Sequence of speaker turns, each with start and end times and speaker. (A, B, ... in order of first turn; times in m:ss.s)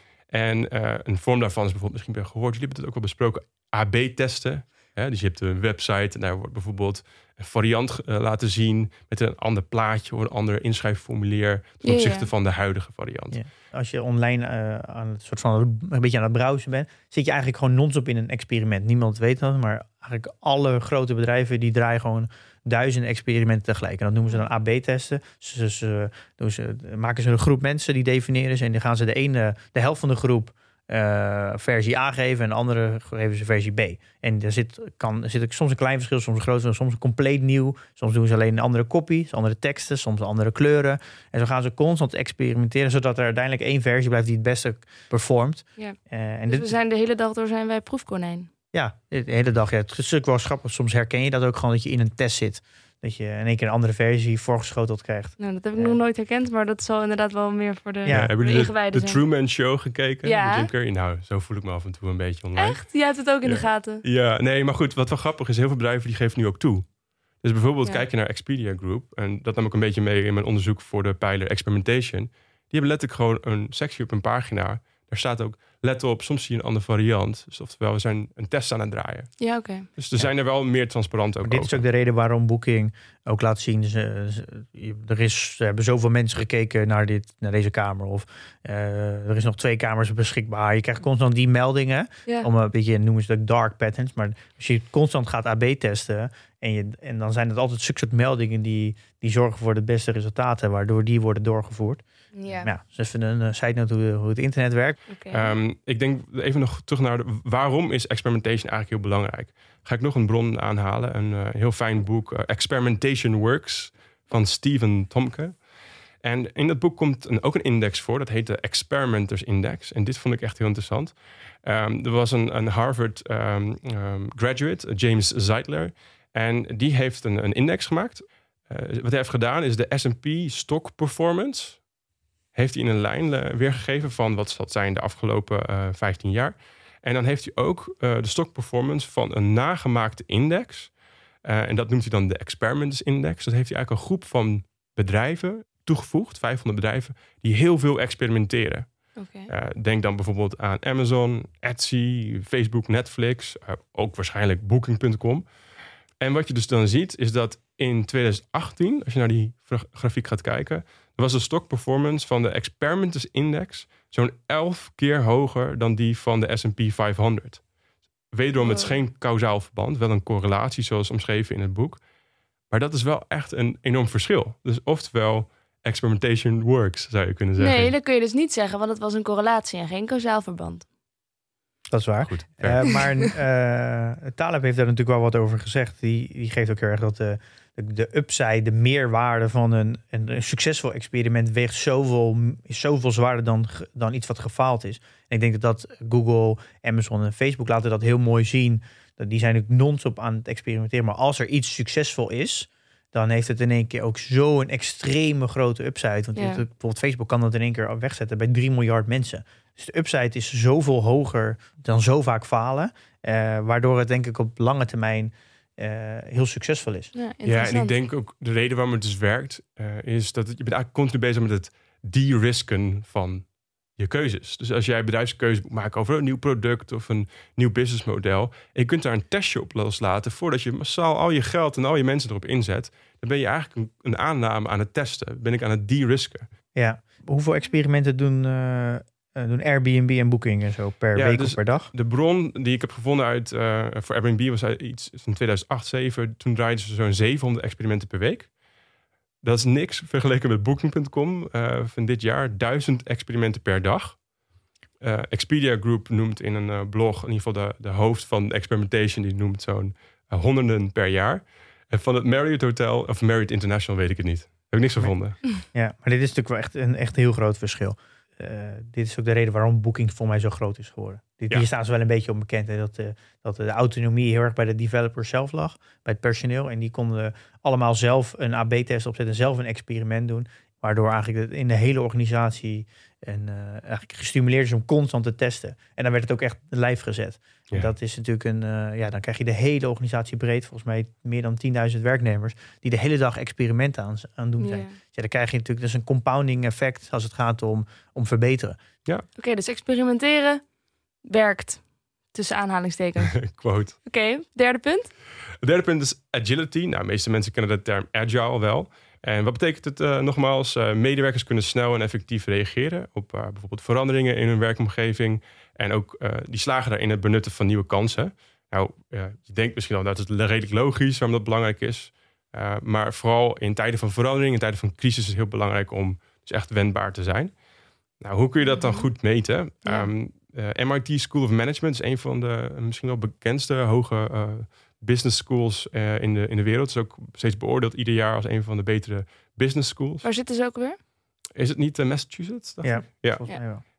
0:00.3-0:13.4 A
0:11.8-0:12.3 B
0:13.3-0:46.8 C
0:45.8-0:48.5 B
0:48.7-0:56.0 C
0:55.4-0:59.2 B
0:58.0-0:58.3 C
0:58.1-1:02.8 A
1:00.2-1:00.7 B
1:02.6-1:04.0 B
1:03.4-1:19.4 A
1:19.4-1:19.9 B
1:20.0-1:21.8 A
1:21.4-1:42.0 C
1:42.3-1:42.7 B
1:42.6-1:45.0 C
1:45.1-1:45.5 B
1:45.3-1:55.6 A
1:56.2-2:11.8 A
2:12.5-2:20.9 A
2:21.4-2:35.4 A
2:29.2-2:29.5 B
2:36.2-2:47.6 A
2:48.3-2:52.0 A
2:48.6-2:49.0 B
2:52.7-2:57.9 A
2:57.6-3:00.9 B
3:01.9-3:37.1 C
3:02.2-3:03.0 A
3:26.4-3:26.6 B
3:37.1-3:37.9 B
3:37.4-3:56.5 A
3:56.7-4:01.9 C
4:01.1-4:08.5 A
4:09.4-4:14.2 A
4:15.0-4:25.4 A
4:25.0-4:58.8 C
4:54.6-4:54.9 B
4:59.4-5:00.6 B
5:01.2-5:03.4 B
5:03.3-5:04.0 A
5:04.0-5:05.1 B
5:05.6-5:27.5 A
5:28.2-5:40.3 A
5:28.6-5:29.1 B
5:29.8-5:30.1 B
5:40.2-5:41.0 B
5:41.6-5:43.4 A
5:42.8-5:43.8 C